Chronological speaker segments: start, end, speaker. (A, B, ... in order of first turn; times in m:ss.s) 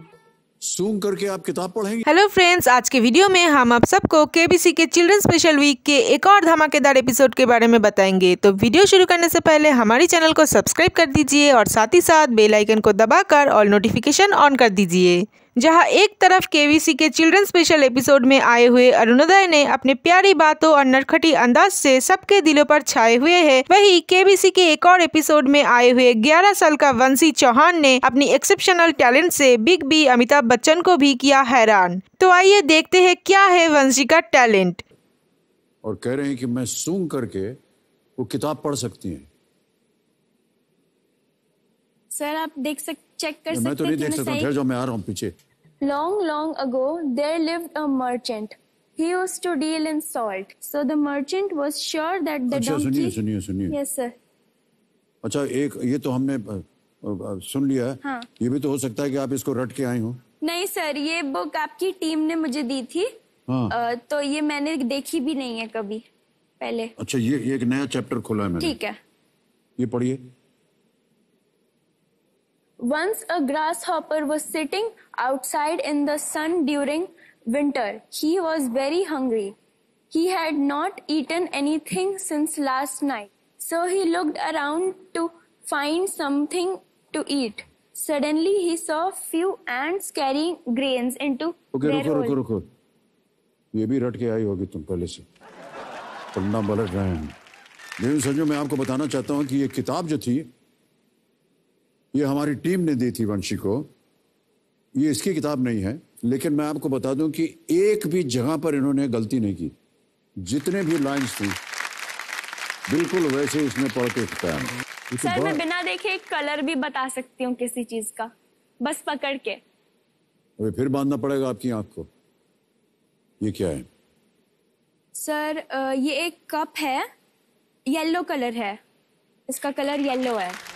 0:00.6-0:02.0 A
0:02.1-0:34.8 B
0:35.8-0:37.5 A
0:38.2-0:39.3 A
0:42.1-0:44.5 C
0:43.5-0:45.3 A
0:45.8-0:53.2 C
0:52.5-0:53.8 A
0:53.7-0:54.1 C
0:55.2-1:00.2 A
1:00.4-1:03.1 C
1:03.5-1:03.7 A
1:03.7-1:06.0 C
1:06.6-1:06.9 C
1:07.0-1:08.8 A
1:08.6-1:09.0 C
1:09.8-1:10.2 A
1:12.8-1:19.6 C
1:20.1-1:32.4 C
1:31.7-1:32.6 A
1:33.7-1:35.2 A
1:36.3-1:37.3 A
1:38.0-1:40.5 A
1:42.1-1:43.9 A
1:45.0-1:49.7 A
1:50.4-1:51.6 A
1:52.9-1:55.6 A
1:55.2-1:58.3 C
1:58.8-1:59.6 C
2:00.6-2:02.1 A
2:03.4-2:03.8 A
2:05.1-2:07.0 C
2:07.9-2:08.8 C
2:09.5-2:10.6 C